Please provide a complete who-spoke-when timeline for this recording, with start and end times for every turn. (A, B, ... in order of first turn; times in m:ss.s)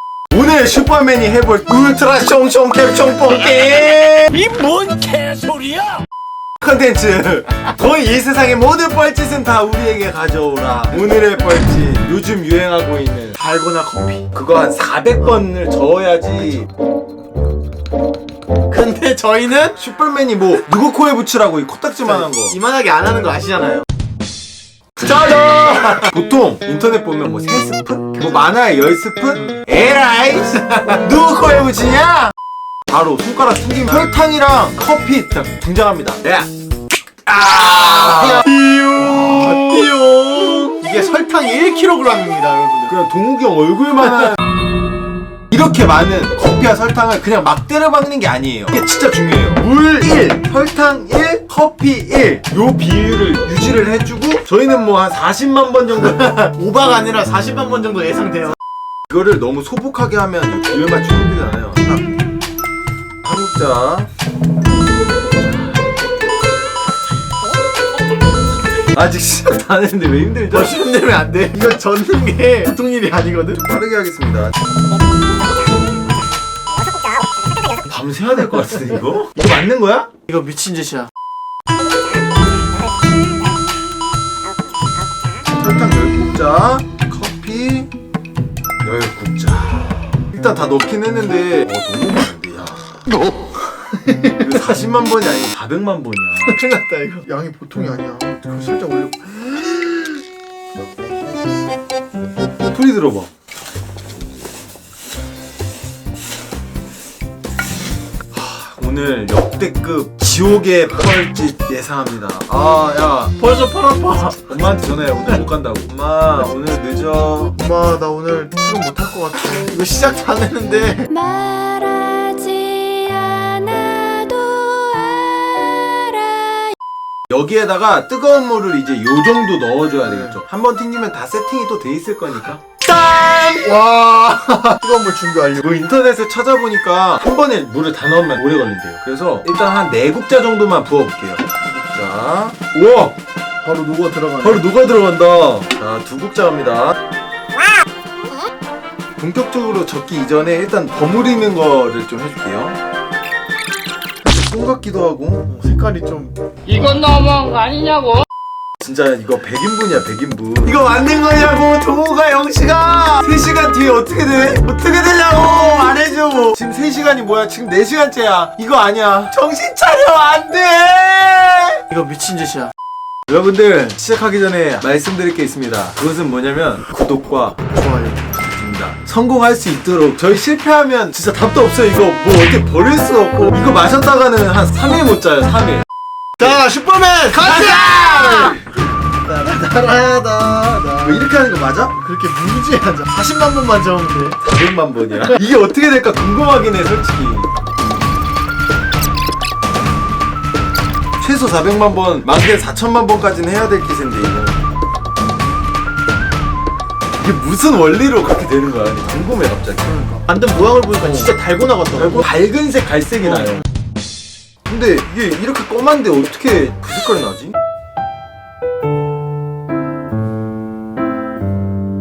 0:00.3-0:04.7 A
0:05.5-0:05.9 A
0:06.6-0:13.4 A
0:13.4-0:14.3 B
0:14.3-0:16.7 A
0:18.7-0:19.8 B
0:19.8-0:22.6 A
0:22.1-0:23.8 B
0:25.0-0:32.3 A
0:32.9-0:36.5 A
0:37.3-0:39.9 A
0:38.4-0:42.9 B
0:42.9-0:44.4 A
0:45.5-0:56.4 A
0:56.3-0:58.6 B
0:59.1-1:02.0 A
1:03.2-1:04.1 A
1:08.9-1:10.8 A
1:10.5-1:13.6 B
1:13.6-1:14.6 A
1:17.8-1:20.1 A
1:20.1-1:21.1 B
1:25.5-1:27.9 A
1:28.8-1:33.0 A
1:33.9-1:34.4 B
1:34.4-1:36.6 A
1:36.5-1:40.2 B
1:42.7-1:43.3 A
1:48.3-1:53.4 A
1:53.4-1:54.5 B
1:54.4-1:57.6 A
1:57.6-2:01.1 B
2:01.2-2:06.7 C
2:07.3-2:13.4 A
2:13.0-2:15.6 B
2:15.6-2:23.2 A
2:23.6-2:24.6 B
2:24.4-2:27.0 A
2:29.2-2:32.8 A
2:34.2-2:35.5 A
2:35.5-2:36.4 B
2:38.8-2:51.8 A
2:51.9-2:52.7 B
2:53.3-2:57.6 A
2:57.7-2:58.2 B
2:58.6-3:05.9 A
3:06.4-3:08.7 B
3:07.3-3:08.6 A
3:09.2-3:11.3 B
3:11.0-3:12.0 A
3:12.0-3:14.4 B
3:14.4-3:17.5 A
3:21.2-3:24.6 A
3:27.2-3:30.0 A
3:29.9-3:32.3 B
3:31.0-3:31.3 A
3:32.0-3:33.6 A
3:34.7-3:37.6 A